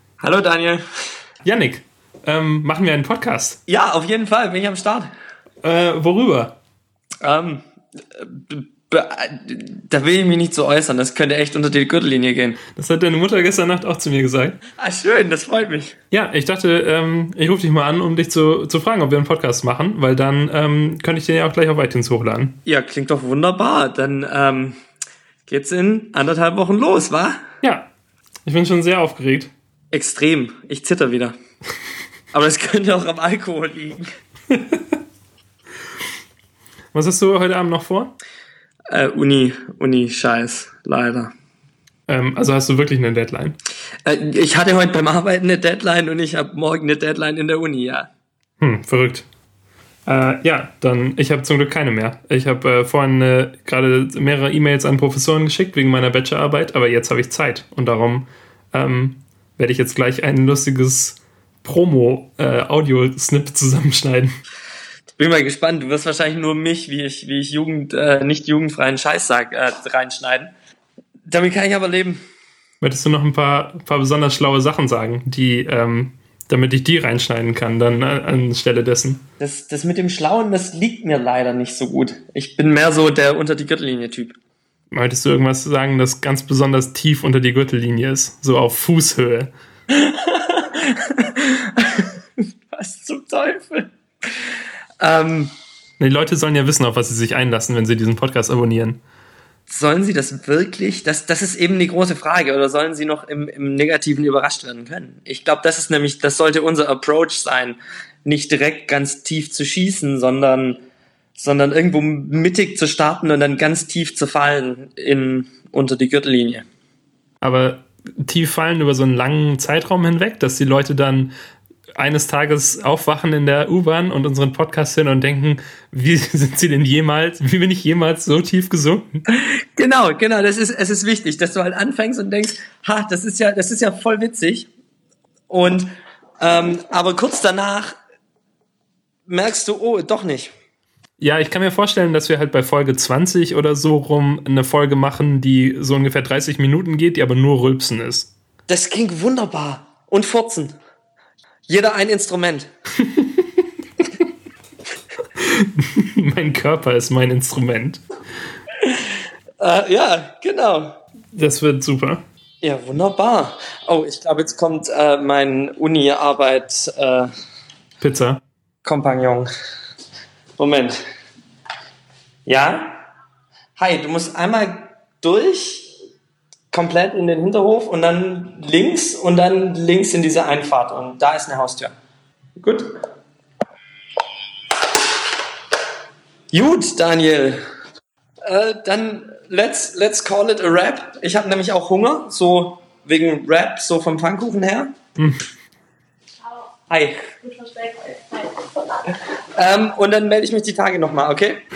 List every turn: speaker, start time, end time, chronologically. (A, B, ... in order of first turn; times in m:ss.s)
0:00.2-0:00.8 A
0:01.4-0:03.6 B
0:03.7-0:05.1 A
0:05.6-0:06.6 B
0:07.2-0:12.6 A
0:12.8-0:14.6 B
0:14.8-0:16.0 A
0:16.1-0:22.6 B
0:22.6-0:24.8 A
0:25.5-0:27.4 A
0:27.6-0:27.9 B
0:28.5-0:29.5 B
0:29.9-0:31.4 A
0:32.3-0:34.0 A
0:36.9-0:38.1 B
0:38.9-0:41.3 A
0:42.1-0:43.6 B
0:44.0-0:48.1 A
0:48.6-0:49.2 B
0:50.1-1:04.4 B
1:05.2-1:10.5 A
1:11.3-1:12.2 A
1:12.8-1:19.2 B
1:19.4-1:24.4 A
1:24.9-1:29.5 B
1:29.9-1:32.1 A
1:32.7-1:33.9 A
1:35.0-1:35.5 A
1:36.0-1:39.0 B
1:39.7-1:50.8 A
1:51.4-1:56.6 A
1:57.4-2:01.3 B
2:02.0-2:09.2 B
2:09.3-2:14.7 A
2:15.5-2:15.9 A
2:16.4-2:18.0 A
2:19.3-2:20.5 A
2:21.2-2:28.3 B
2:28.7-2:30.8 A
2:31.7-2:32.7 A
2:33.0-2:33.5 B
2:35.4-2:38.0 B
2:39.6-2:41.0 A
2:41.3-2:42.2 B
2:42.6-2:47.3 A
2:48.0-2:48.4 B
2:48.8-2:49.5 A
2:50.6-2:51.0 A
2:52.5-2:53.0 A
2:53.8-2:56.0 A
2:56.7-3:02.0 A
3:02.6-3:02.9 A
3:06.5-3:07.6 A
3:08.4-3:14.9 A
3:16.9-3:18.4 A
3:19.1-3:21.6 A